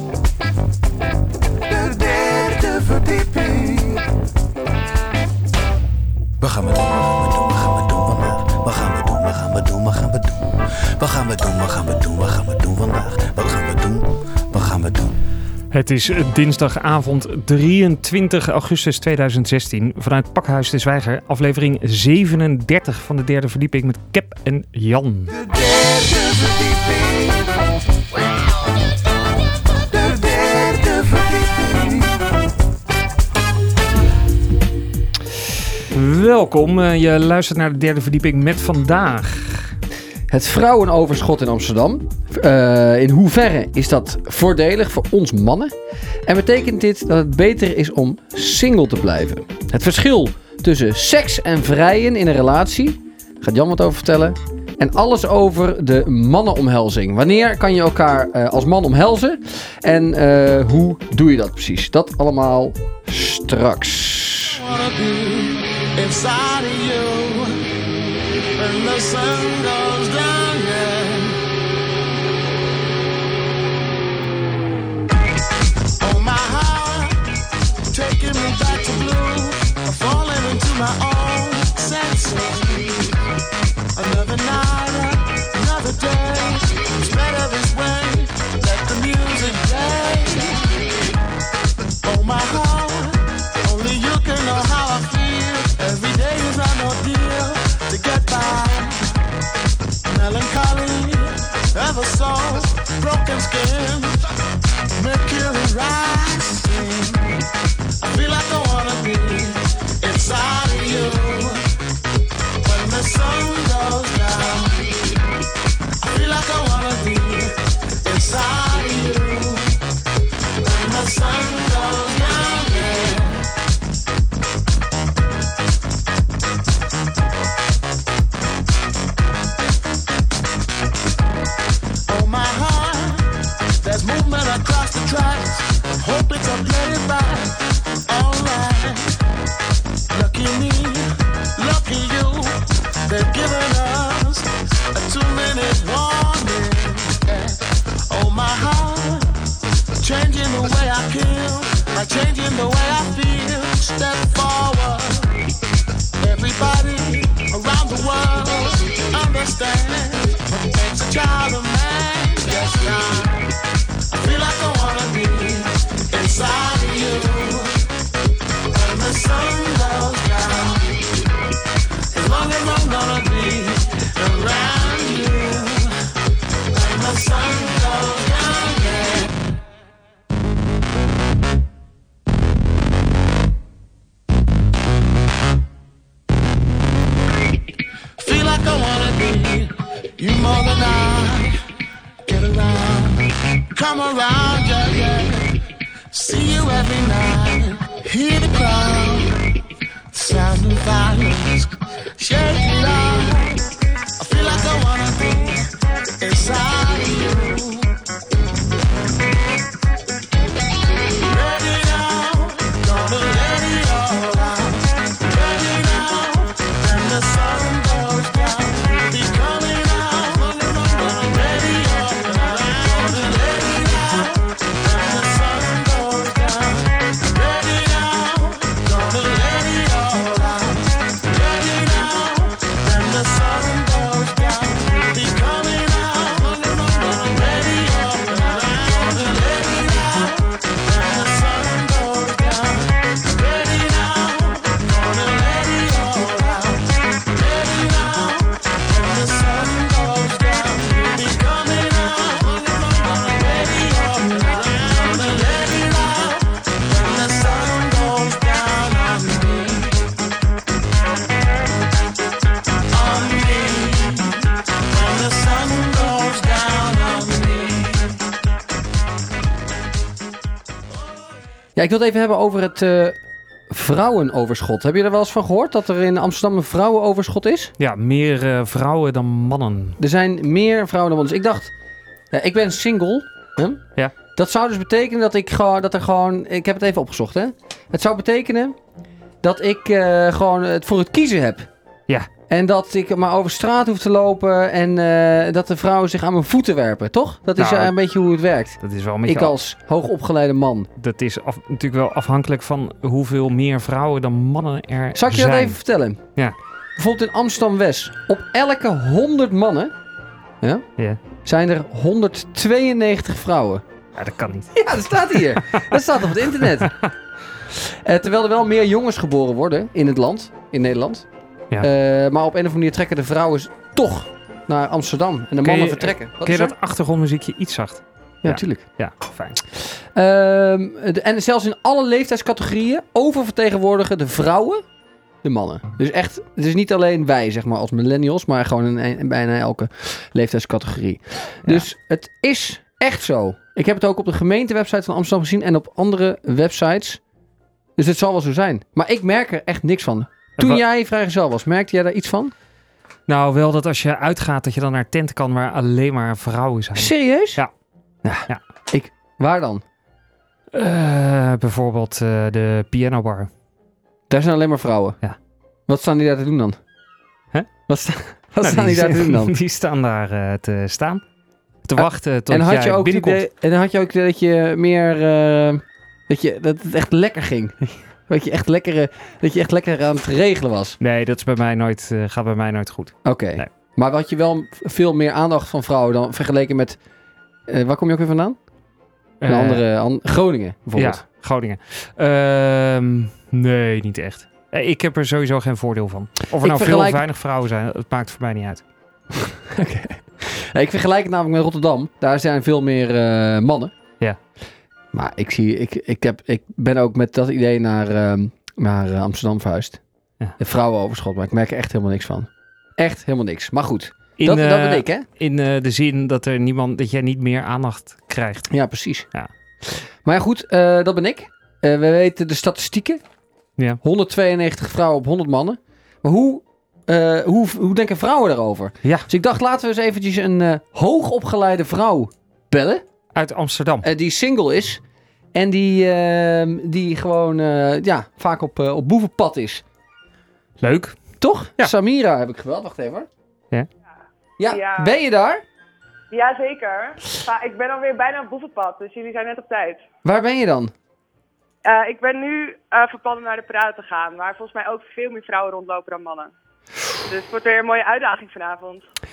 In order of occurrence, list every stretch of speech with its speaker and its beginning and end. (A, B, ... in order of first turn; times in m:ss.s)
0:01.7-0:04.0 A
0:06.4-0:15.2 A
0:15.7-0:25.4 B
0:25.3-0:27.5 A
0:29.8-0:32.2 A
0:35.9-0:39.8 B
0:40.3-0:45.7 C
0:46.2-1:04.6 C
1:04.4-1:07.6 D
1:08.6-1:11.4 D
1:16.0-1:17.2 D
1:17.9-1:23.1 D
1:24.0-1:30.8 D
1:32.0-1:39.1 D
1:40.1-1:44.2 D
1:45.0-1:47.4 D
1:48.0-1:51.7 D
1:52.6-1:55.0 D
1:56.0-1:59.8 D
2:00.6-2:03.5 D
2:12.1-2:19.1 D
2:20.1-2:29.4 D
2:30.0-2:35.4 D
2:36.2-2:43.4 D
2:44.1-2:47.8 D
2:48.7-2:51.0 D
2:52.1-2:55.9 D
2:56.7-2:59.5 D
3:08.2-3:11.6 D
3:12.2-3:15.6 D
3:16.1-3:19.4 D
3:20.1-3:27.9 D
3:31.2-4:20.1 D
4:22.9-4:28.2 D
4:31.8-4:33.2 C
4:33.7-4:37.7 C
4:37.8-4:40.0 B
4:40.0-4:41.7 C
4:42.3-4:43.8 C
4:44.3-4:48.8 C
4:49.4-4:51.7 C
4:52.5-5:00.9 C
4:57.6-4:57.9 B
4:58.8-4:59.5 B
5:01.0-5:05.8 B
5:05.1-5:06.2 C
5:07.0-5:09.9 C
5:11.4-5:13.8 C
5:14.2-5:15.9 B
5:14.8-5:16.9 C
5:16.7-5:17.0 B
5:17.7-5:21.3 C
5:21.8-5:26.7 C
5:25.6-5:29.6 B
5:28.4-5:28.9 C
5:30.1-5:34.8 C
5:35.4-5:47.2 C
5:48.0-5:52.5 C
5:53.3-5:57.7 B
5:56.9-5:57.6 C
5:58.2-5:59.8 C
6:00.7-6:03.5 B
6:04.3-6:05.2 C
6:05.9-6:06.8 C
6:07.9-6:09.6 C
6:08.6-6:11.2 B
6:11.8-6:13.4 B
6:12.0-6:21.0 C
6:21.0-6:23.7 B
6:23.2-6:27.0 C
6:27.7-6:28.6 C
6:29.4-6:29.8 B
6:29.4-6:31.2 C
6:30.9-6:38.8 B
6:36.6-6:37.2 C
6:39.4-6:43.9 C
6:45.1-6:50.0 C
6:50.6-6:55.2 C
6:54.4-6:58.7 B
6:58.7-6:59.3 C
7:00.2-7:03.2 C
7:04.0-7:13.0 C
7:13.3-7:14.1 B
7:14.0-7:15.0 C
7:15.5-7:19.8 C
7:20.8-7:21.2 B
7:21.4-7:23.3 C
7:24.6-7:25.6 C
7:24.7-7:25.2 E
7:26.3-7:30.0 E
7:30.2-7:30.9 C
7:31.8-7:36.5 E
7:37.3-7:39.1 E